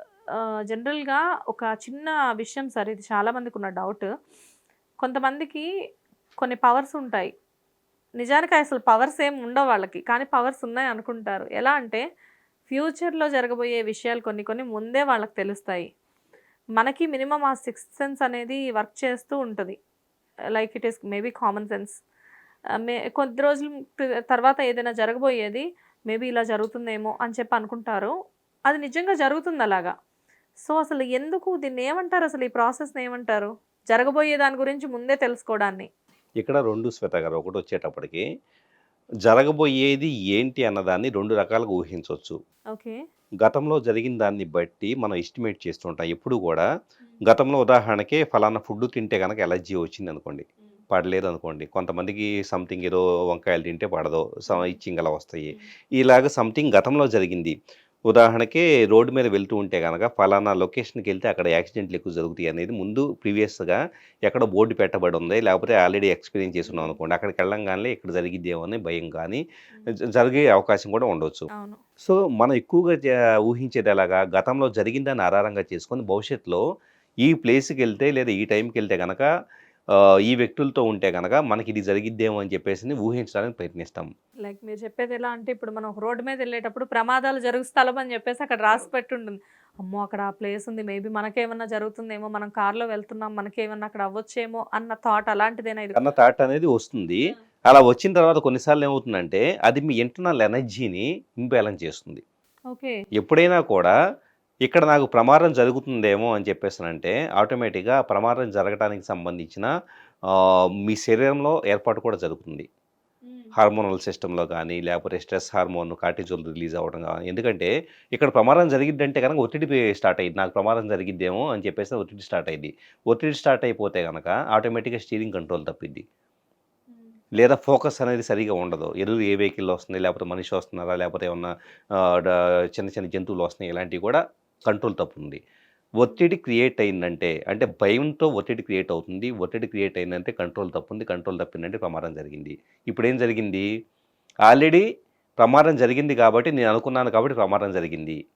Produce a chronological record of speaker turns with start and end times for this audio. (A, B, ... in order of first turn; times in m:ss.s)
0:00.3-0:04.1 A
0:05.0-0:05.6 A
0:06.4-0:07.3 A
0:08.2-0:12.0 A
0:12.7-0:15.9 A
0:16.8-0:19.8 A
0:20.6-0:22.0 A
0:22.8-0:28.1 A
0:28.7-0:29.9 A
0:30.6-0:35.9 A
0:36.4-0:38.2 B
0:39.2-0:42.4 B
0:43.4-0:46.7 B
0:47.2-0:57.5 B
0:54.5-0:54.8 A
0:58.1-1:09.4 B
1:06.6-1:07.0 A
1:10.1-1:11.5 B
1:11.5-1:11.8 A
1:12.0-1:16.6 B
1:17.2-1:19.3 B
1:20.3-1:24.1 B
1:24.4-1:36.0 A
1:36.0-1:42.2 B
1:42.7-1:43.0 A
1:43.2-1:43.9 B
1:44.7-1:49.7 B
1:50.3-1:52.7 B
1:53.6-2:06.0 B
2:07.4-2:15.4 B
2:16.0-2:23.7 B
2:24.5-2:24.8 B
2:25.4-2:28.2 B